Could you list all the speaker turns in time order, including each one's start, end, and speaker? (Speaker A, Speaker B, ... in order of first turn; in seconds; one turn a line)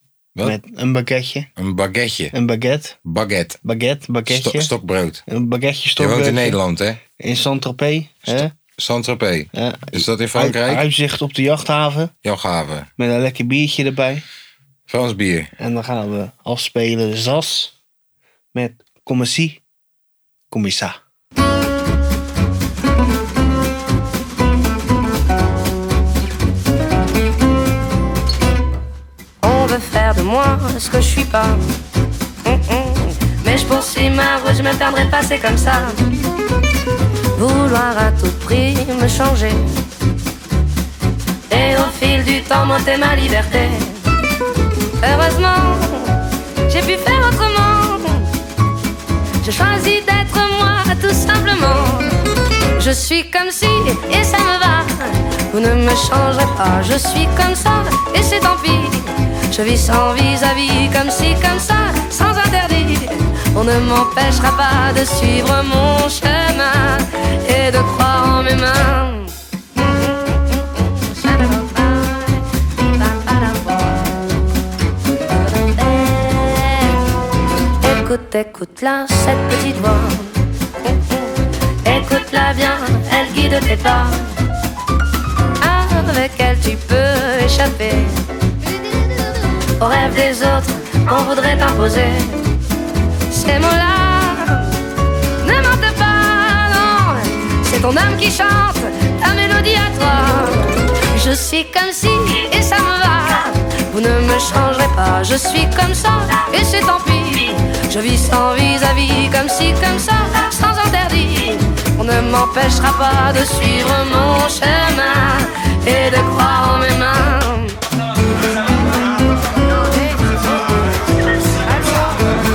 Speaker A: 0.4-1.5
Speaker B: 1.6-2.3
Speaker A: 2.3-3.0
Speaker B: 3.0-3.6
Speaker A: 3.6-4.7
Speaker B: 4.3-5.2
Speaker A: 5.3-6.6
Speaker B: 6.0-7.0
Speaker A: 7.2-8.5
Speaker B: 8.2-10.9
Speaker A: 9.5-12.1
Speaker B: 12.2-12.9
Speaker A: 13.0-14.2
Speaker B: 14.9-15.5
Speaker A: 15.6-17.7
Speaker A: 18.5-19.6
Speaker A: 20.5-21.0
Speaker C: 29.4-31.6
Speaker C: 32.4-36.0
Speaker C: 37.3-39.6
Speaker C: 41.5-44.0
Speaker C: 45.0-48.3
Speaker C: 49.4-52.1
Speaker C: 52.8-74.2
Speaker C: 75.4-77.0
Speaker C: 77.8-84.3
Speaker C: 85.6-88.2
Speaker C: 89.8-92.4
Speaker C: 93.3-94.7
Speaker C: 95.4-117.8
Speaker C: 119.7-120.4
Speaker C: 121.7-122.1